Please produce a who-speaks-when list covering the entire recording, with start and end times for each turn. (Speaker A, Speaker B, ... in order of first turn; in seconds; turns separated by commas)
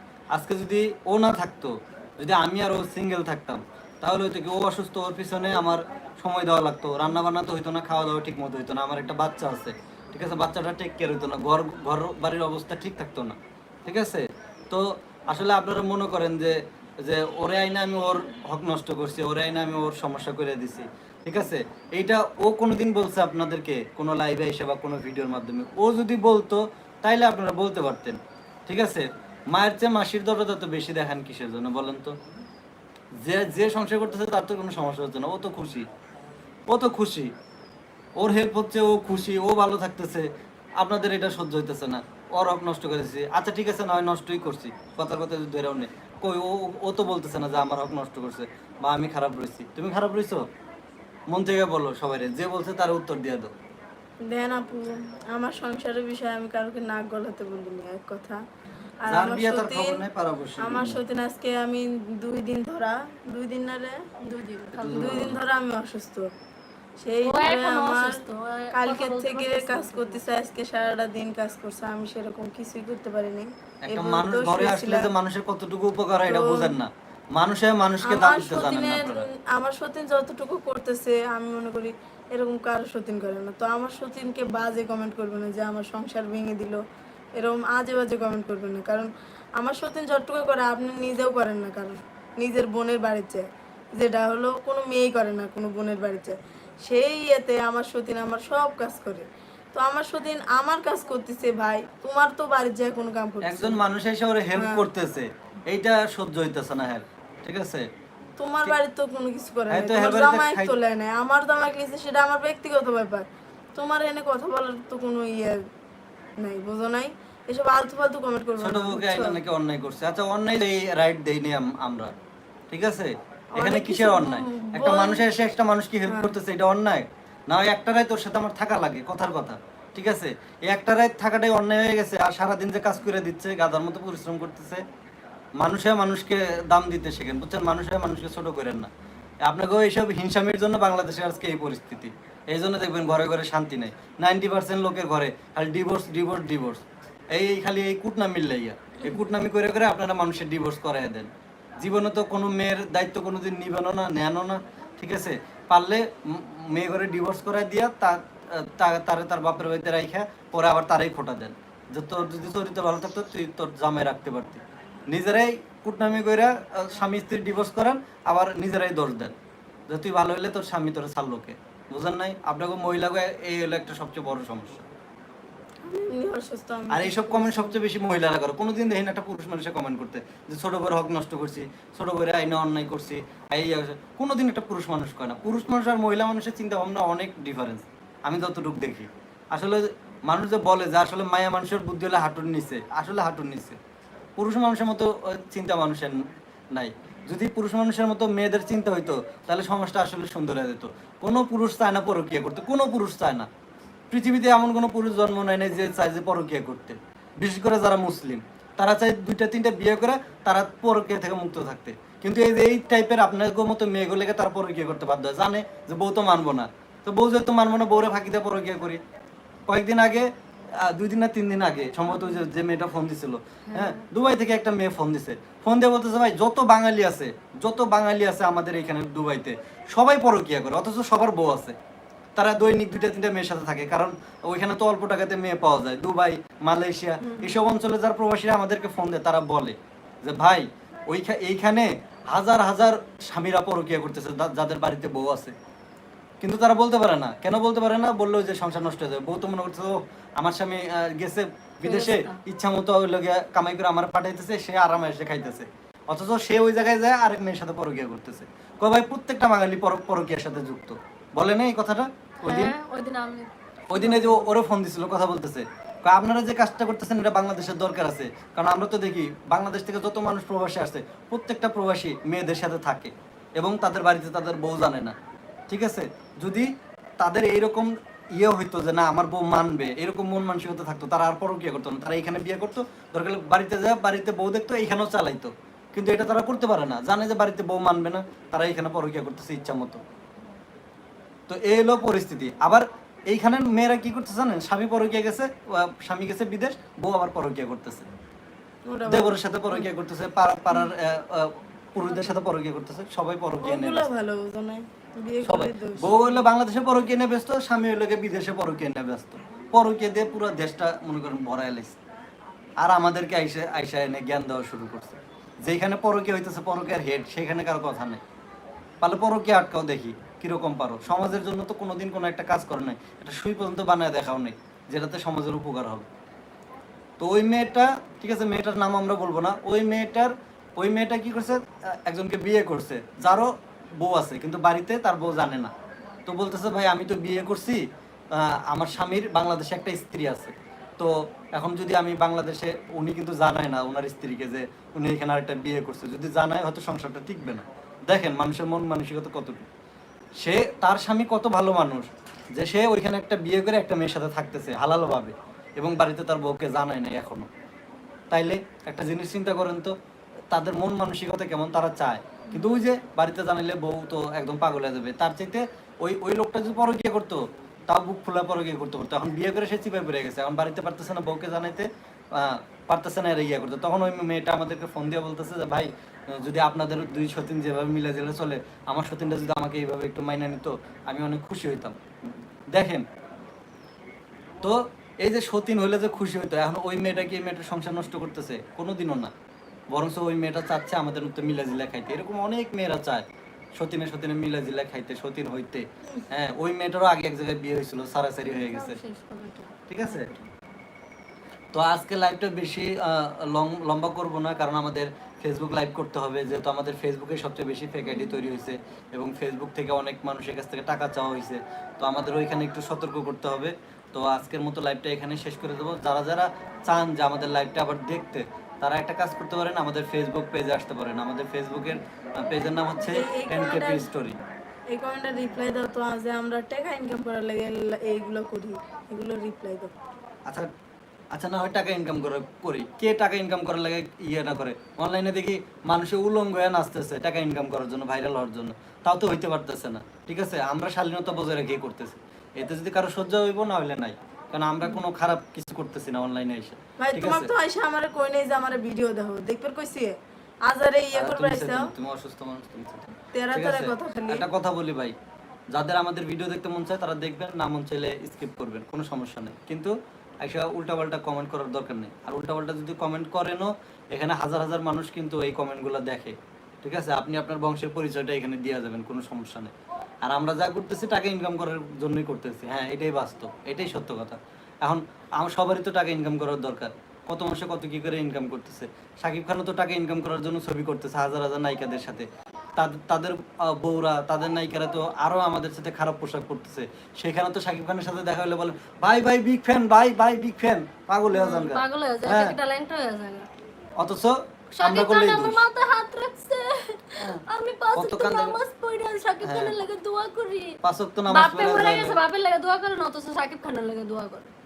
Speaker A: 0.3-32.1, Speaker A: 33.2-35.9, Speaker A: 36.7-37.3, Speaker A: 38.2-50.5, Speaker A: 51.3-53.5, Speaker B: 54.2-58.4, Speaker B: 59.0-60.0, Speaker A: 59.1-61.0, Speaker B: 60.6-64.0, Speaker C: 64.2-65.3, Speaker A: 64.7-65.4, Speaker B: 64.9-66.3, Speaker B: 67.0-68.2, Speaker C: 67.2-70.2, Speaker B: 68.7-75.1, Speaker A: 73.8-79.3, Speaker B: 76.2-76.8, Speaker B: 78.0-86.8, Speaker B: 87.4-103.8, Speaker A: 103.4-107.9, Speaker B: 104.5-104.9, Speaker B: 108.4-115.6, Speaker A: 109.7-110.7, Speaker B: 116.4-119.4, Speaker A: 118.6-122.1, Speaker A: 122.7-134.8, Speaker B: 123.5-125.2, Speaker B: 126.1-126.3, Speaker A: 135.6-138.9, Speaker A: 139.4-151.3, Speaker A: 151.8-169.3, Speaker A: 169.9-174.8, Speaker B: 175.8-177.8, Speaker A: 176.9-193.8, Speaker A: 194.4-203.5, Speaker A: 204.1-219.0, Speaker A: 219.7-231.8, Speaker C: 223.7-224.0, Speaker A: 232.3-245.5, Speaker A: 246.4-262.7, Speaker C: 251.8-252.3, Speaker C: 262.4-264.5, Speaker A: 263.9-275.1, Speaker A: 275.7-290.0, Speaker A: 291.5-298.1, Speaker B: 298.9-299.4, Speaker A: 299.1-304.1, Speaker B: 303.6-306.4, Speaker A: 305.4-312.0, Speaker A: 312.8-318.2, Speaker A: 319.0-326.1, Speaker A: 327.2-335.7, Speaker A: 336.3-349.6, Speaker A: 350.4-357.5, Speaker A: 358.3-359.9, Speaker A: 360.5-382.0, Speaker A: 382.7-383.1, Speaker A: 384.6-389.3, Speaker A: 389.9-393.2, Speaker A: 393.8-399.0, Speaker C: 398.4-400.4, Speaker A: 399.9-400.3, Speaker A: 401.7-424.4, Speaker B: 423.1-424.1, Speaker B: 424.9-429.9, Speaker A: 431.3-447.5, Speaker B: 447.0-451.9, Speaker A: 451.1-455.1, Speaker B: 453.3-454.5, Speaker A: 455.7-469.7, Speaker A: 470.2-492.6, Speaker C: 491.3-493.5, Speaker A: 494.0-495.6, Speaker C: 494.8-500.8, Speaker A: 497.9-498.6, Speaker A: 499.4-499.8, Speaker A: 500.8-502.2, Speaker C: 501.3-504.5